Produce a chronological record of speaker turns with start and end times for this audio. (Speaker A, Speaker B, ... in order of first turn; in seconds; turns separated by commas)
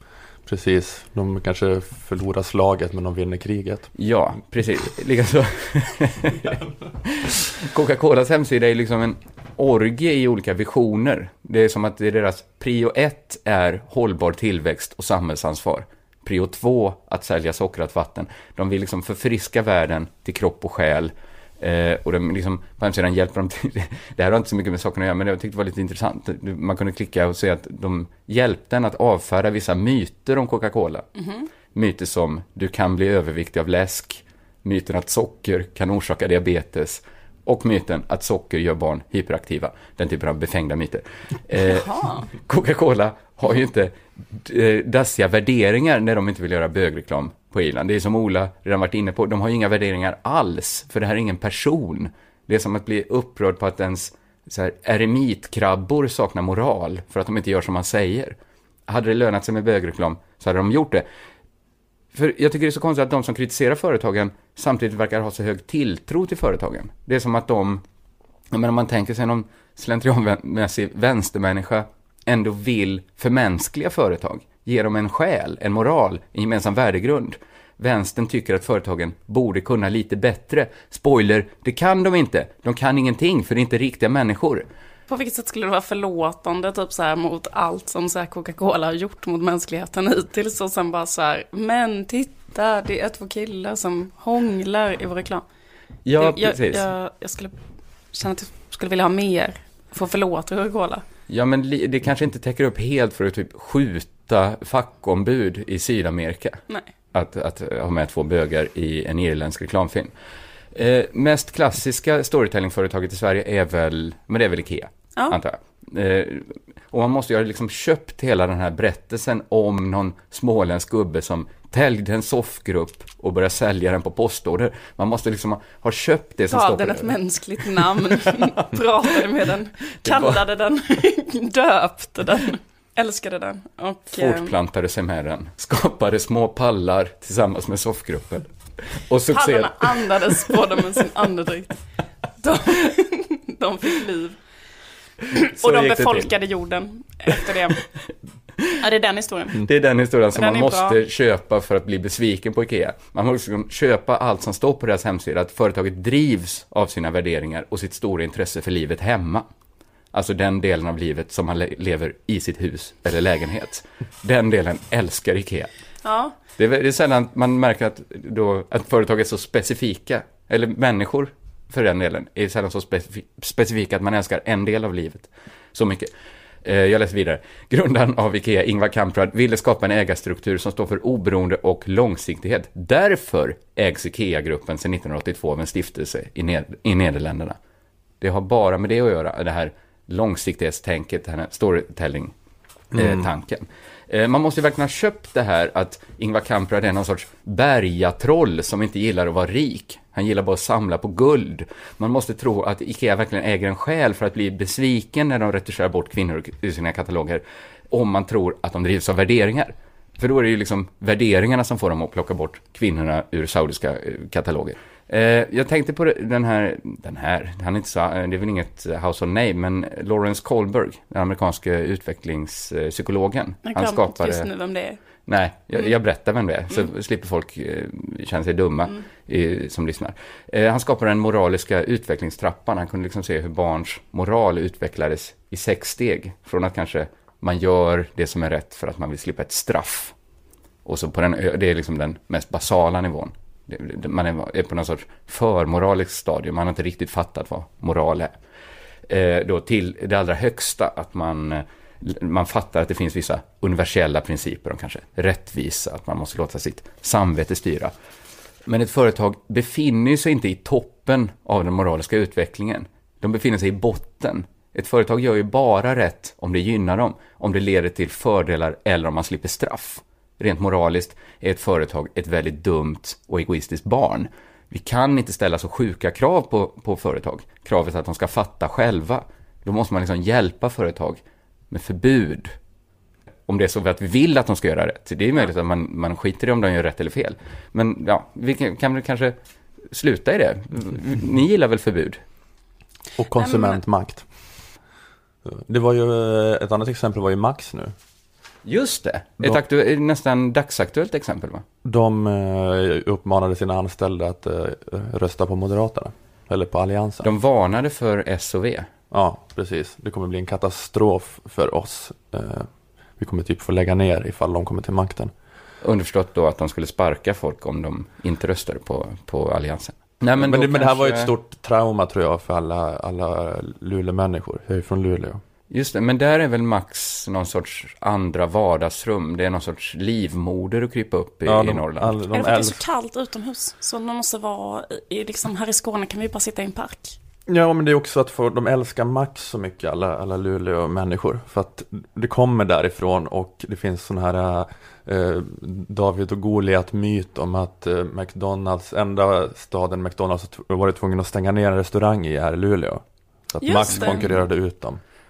Speaker A: 0.5-3.9, Speaker B: 4.0-31.1, Speaker C: 31.2-31.5, Speaker B: 31.7-58.4, Speaker C: 41.7-42.3, Speaker B: 58.9-61.0, Speaker B: 62.1-67.8, Speaker B: 68.5-84.7, Speaker C: 85.1-95.4, Speaker B: 96.1-96.8, Speaker C: 96.2-97.6, Speaker C: 98.1-101.0, Speaker B: 101.3-106.6, Speaker B: 107.1-110.1, Speaker B: 110.7-128.8, Speaker C: 126.5-134.5, Speaker B: 130.0-130.4, Speaker B: 134.1-138.5, Speaker B: 139.1-140.6, Speaker C: 139.3-141.8, Speaker C: 142.4-144.4, Speaker C: 145.3-147.8, Speaker B: 145.6-146.3, Speaker C: 148.8-149.6, Speaker B: 149.6-159.5, Speaker C: 150.3-151.0, Speaker B: 160.1-165.7, Speaker C: 166.0-166.3, Speaker B: 166.6-176.1, Speaker B: 176.6-187.6, Speaker B: 188.2-192.3, Speaker B: 192.9-224.5, Speaker A: 192.9-193.3, Speaker C: 223.7-225.0, Speaker B: 225.2-240.1, Speaker B: 240.8-248.3, Speaker B: 249.1-257.9, Speaker B: 258.7-281.2, Speaker B: 281.7-282.5, Speaker B: 283.5-289.4, Speaker B: 289.9-292.2, Speaker A: 293.2-294.2, Speaker C: 293.4-293.8, Speaker A: 295.4-297.9, Speaker B: 298.6-301.6, Speaker A: 301.8-307.3, Speaker B: 307.2-308.9, Speaker A: 309.1-315.3, Speaker B: 315.8-321.3, Speaker A: 320.4-325.4, Speaker B: 325.7-332.2, Speaker A: 331.5-332.8, Speaker C: 332.3-337.2, Speaker A: 337.5-355.0, Speaker C: 353.6-354.3